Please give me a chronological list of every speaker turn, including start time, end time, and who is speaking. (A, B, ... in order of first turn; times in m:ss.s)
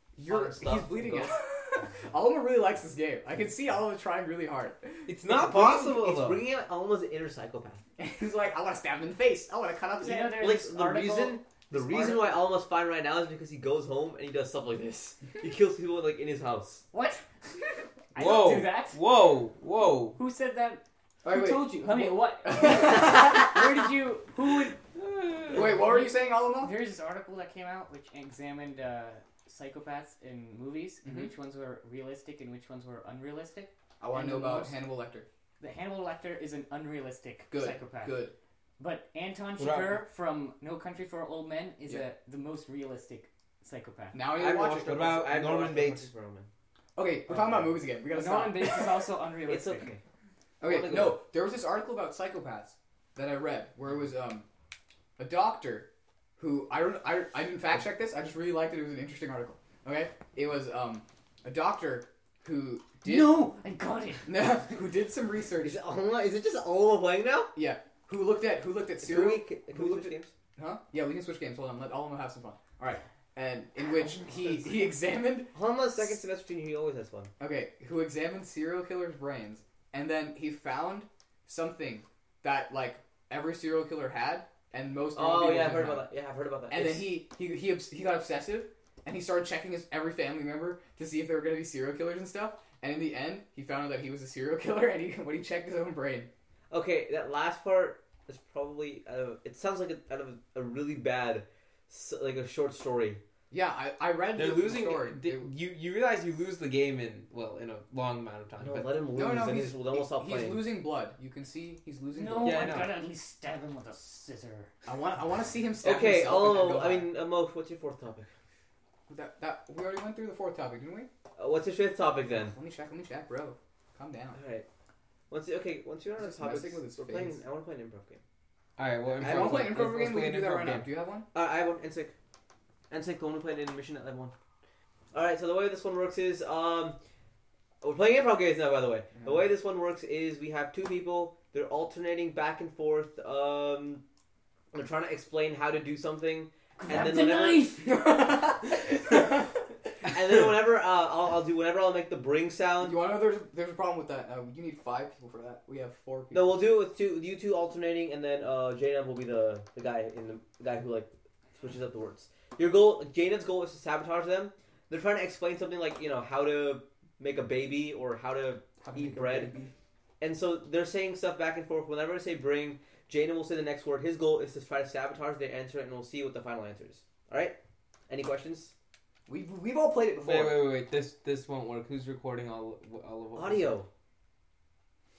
0:00.2-0:05.1 A
0:00.2-0:01.3 B
0:05.1-0:06.4 C
0:05.2-0:07.8 B
0:08.0-0:10.5 A
0:10.0-0:11.4 D
0:10.4-0:16.8 B
0:11.7-0:12.4 A
0:16.9-0:17.2 D
0:18.1-0:19.0 D
0:18.2-0:20.2 C
0:20.2-0:24.8 D
0:21.2-0:23.9 A
0:25.0-0:25.8 C
0:25.5-0:34.9 D
0:25.5-0:26.7 A
0:31.0-0:31.3 A
0:34.0-0:35.3 A
0:35.6-0:38.3 D
0:37.5-0:38.3 A
0:38.8-0:44.2 D
0:39.6-0:40.0 C
0:44.1-0:44.9 A
0:44.4-0:46.5 B
0:44.4-0:46.1 C
0:47.0-0:49.1 A
0:47.3-0:47.8 B
0:48.1-0:49.9 D
0:49.5-0:50.0 B
0:50.6-0:54.4 A
0:50.6-0:51.2 B
0:55.2-1:03.5 A
1:03.0-1:04.9 D
1:04.2-1:05.8 A
1:05.6-1:07.5 B
1:07.5-1:15.5 A
1:09.0-1:10.3 B
1:14.2-1:14.8 B
1:15.5-1:17.3 B
1:17.4-1:26.1 A
1:25.1-1:27.2 B
1:26.7-1:36.3 A
1:36.7-1:43.2 B
1:43.5-1:45.5 A
1:44.4-1:48.9 C
1:48.6-1:50.6 B
1:49.1-1:52.9 A
1:52.1-1:54.7 D
1:52.4-1:53.0 C
1:54.8-1:57.1 A
1:55.8-1:58.3 B
1:59.1-2:01.1 A
2:01.4-2:02.5 B
2:02.3-2:04.4 A
2:04.3-2:04.7 B
2:05.3-2:08.2 B
2:06.2-2:07.4 A
2:08.8-2:10.9 C
2:09.2-2:11.3 A
2:09.2-2:09.7 B
2:11.3-2:12.1 B
2:12.9-2:14.3 B
2:15.1-2:17.0 B
2:17.8-2:24.0 B
2:19.1-2:19.5 A
2:24.7-2:27.7 B
2:26.8-2:28.0 D
2:27.8-2:29.5 A
2:30.0-2:33.0 B
2:32.8-2:36.6 A
2:36.3-2:49.5 B
2:48.8-2:49.7 A
2:50.2-2:57.6 B
2:58.1-2:58.7 B
2:59.3-3:00.7 A
3:00.2-3:03.8 C
3:03.3-3:03.9 B